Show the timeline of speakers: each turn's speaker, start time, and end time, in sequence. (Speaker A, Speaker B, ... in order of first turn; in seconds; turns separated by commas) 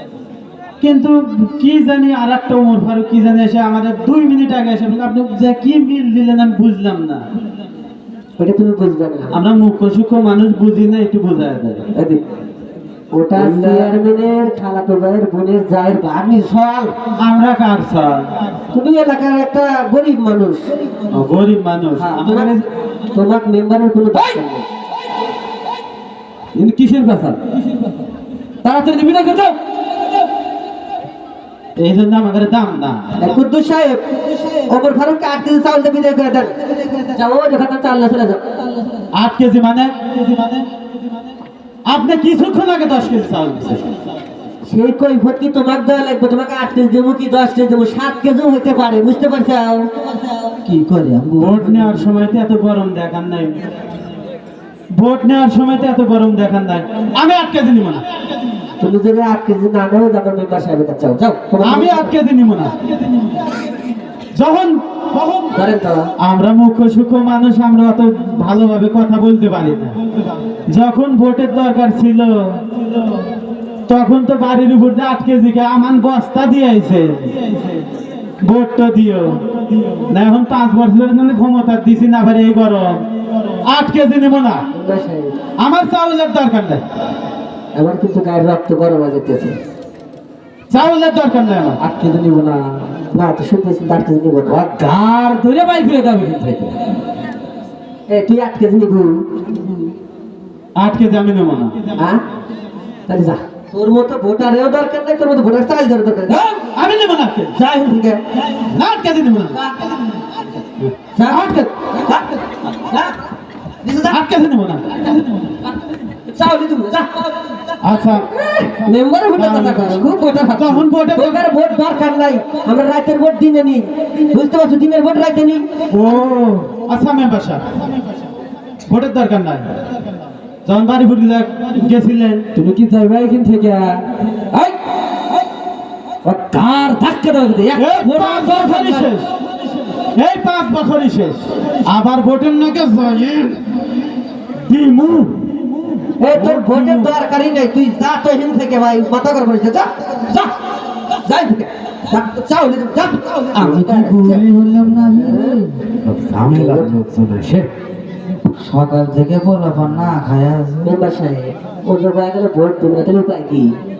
Speaker A: 0.8-7.2, Speaker B: 8.4-9.3, Speaker A: 9.3-11.8, Speaker B: 11.9-12.2, Speaker B: 13.1-16.9, Speaker C: 13.3-13.9, Speaker A: 17.2-18.3, Speaker B: 18.7-20.8, Speaker A: 21.1-22.6, Speaker B: 22.0-22.5, Speaker B: 23.1-24.6, Speaker C: 26.5-27.4, Speaker C: 28.6-29.6, Speaker A: 31.8-33.1, Speaker B: 33.2-38.4, Speaker A: 39.1-40.7, Speaker A: 41.9-43.8, Speaker B: 44.6-49.9, Speaker D: 50.6-52.1, Speaker A: 51.4-53.6, Speaker A: 54.9-58.0, Speaker B: 58.8-62.1, Speaker A: 61.6-62.8, Speaker A: 64.3-65.5, Speaker B: 65.5-66.1, Speaker A: 66.2-70.0, Speaker A: 70.7-72.6, Speaker A: 73.9-77.4, Speaker A: 78.4-79.4, Speaker A: 80.0-83.0, Speaker A: 83.6-84.6, Speaker B: 84.7-85.3, Speaker A: 85.6-86.8, Speaker B: 87.7-89.6, Speaker A: 90.7-91.8, Speaker C: 91.8-92.8, Speaker B: 93.1-94.6, Speaker C: 94.5-96.8, Speaker B: 98.1-99.2, Speaker A: 100.8-101.7, Speaker B: 103.1-106.5, Speaker A: 106.7-107.5, Speaker B: 107.5-108.2, Speaker A: 108.6-109.6, Speaker B: 109.5-109.9, Speaker A: 110.8-111.7, Speaker B: 111.1-113.1, Speaker B: 113.8-114.2, Speaker A: 114.0-114.8, Speaker B: 116.3-117.3, Speaker A: 117.8-118.3, Speaker B: 118.4-125.7, Speaker A: 119.3-121.4, Speaker A: 125.9-127.7, Speaker A: 128.9-129.7, Speaker A: 130.6-132.5, Speaker C: 132.5-134.7, Speaker C: 136.2-139.1, Speaker A: 137.8-139.3, Speaker A: 140.1-143.6, Speaker A: 144.6-145.7, Speaker B: 146.2-150.5, Speaker A: 146.3-147.1, Speaker B: 151.1-154.4, Speaker D: 153.5-155.6, Speaker B: 155.2-155.6, Speaker C: 156.0-157.7, Speaker B: 156.5-156.9, Speaker D: 158.6-160.9, Speaker B: 160.8-163.7